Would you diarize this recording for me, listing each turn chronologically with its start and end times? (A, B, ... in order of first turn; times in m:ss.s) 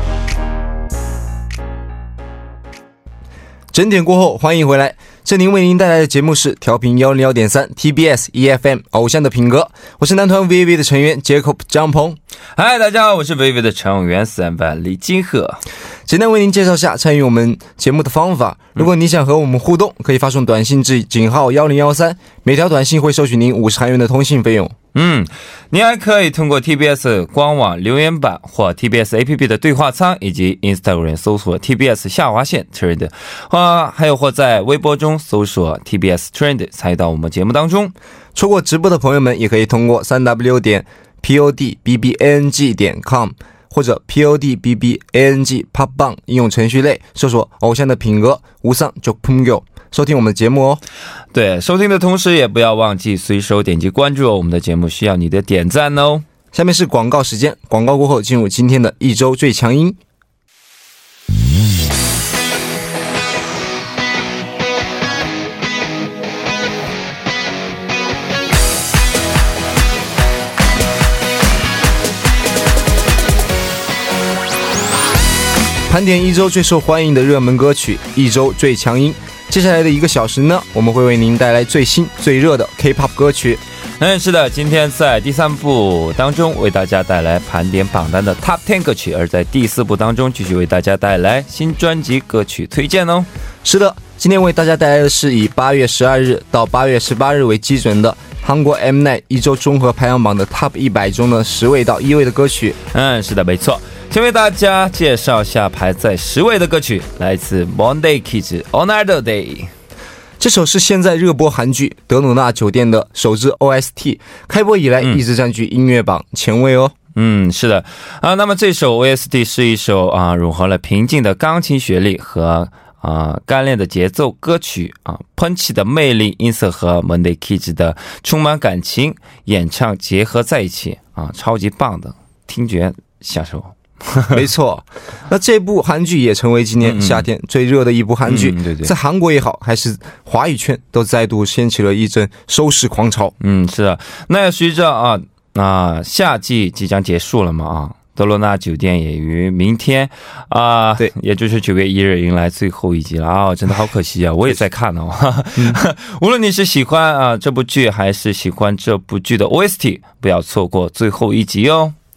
0:03.7-0:12.2 A
0:12.6-0:15.6 B
0:16.0-0:24.7 A
0:24.9-0:37.9 B
0:38.3-0:50.8 A
0:51.3-0:56.2 B
0:56.5-1:00.0 A
1:15.9-1:23.6 A
1:24.0-1:33.3 B
1:33.6-1:42.8 A
1:42.9-1:49.7 B
1:50.4-1:56.9 A
1:57.1-2:14.4 B
2:14.3-2:23.3 A
2:16.8-2:17.3 B
2:18.2-2:18.9 B
2:23.4-2:41.9 B